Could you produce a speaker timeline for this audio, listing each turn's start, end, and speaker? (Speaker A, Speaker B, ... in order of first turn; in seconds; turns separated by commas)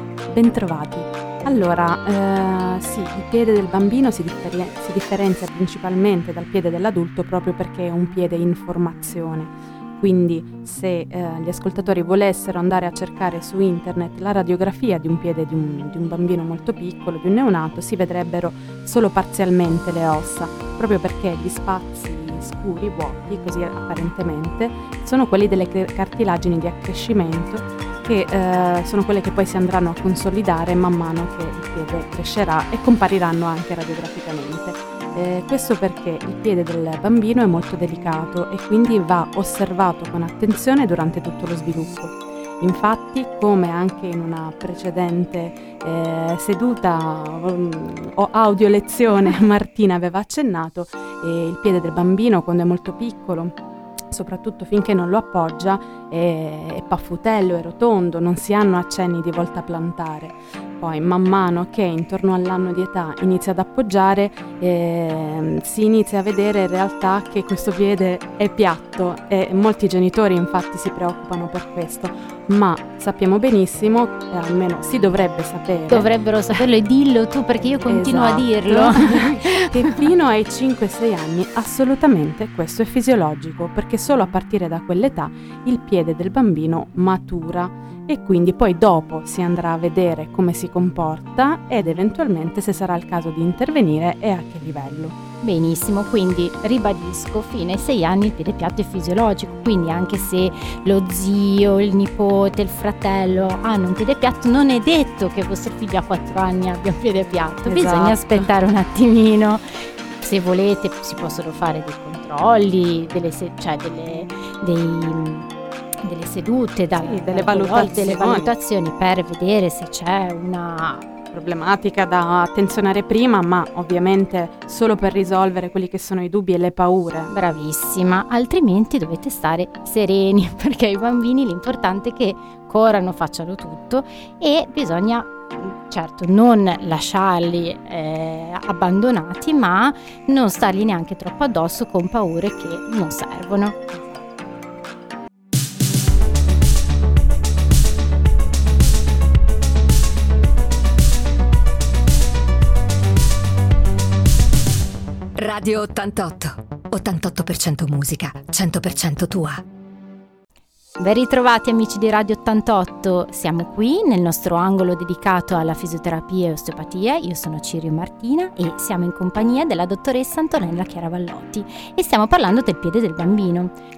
Speaker A: 0.3-53.5, Speaker A: 54.1-76.6, Speaker B: 75.9-80.0, Speaker A: 77.9-95.1, Speaker B: 95.4-109.6, Speaker A: 107.7-108.5, Speaker B: 110.2-115.5, Speaker B: 116.0-121.1, Speaker A: 117.0-118.5, Speaker A: 121.3-127.3, Speaker B: 127.3-144.2, Speaker C: 155.3-159.6, Speaker B: 161.0-173.7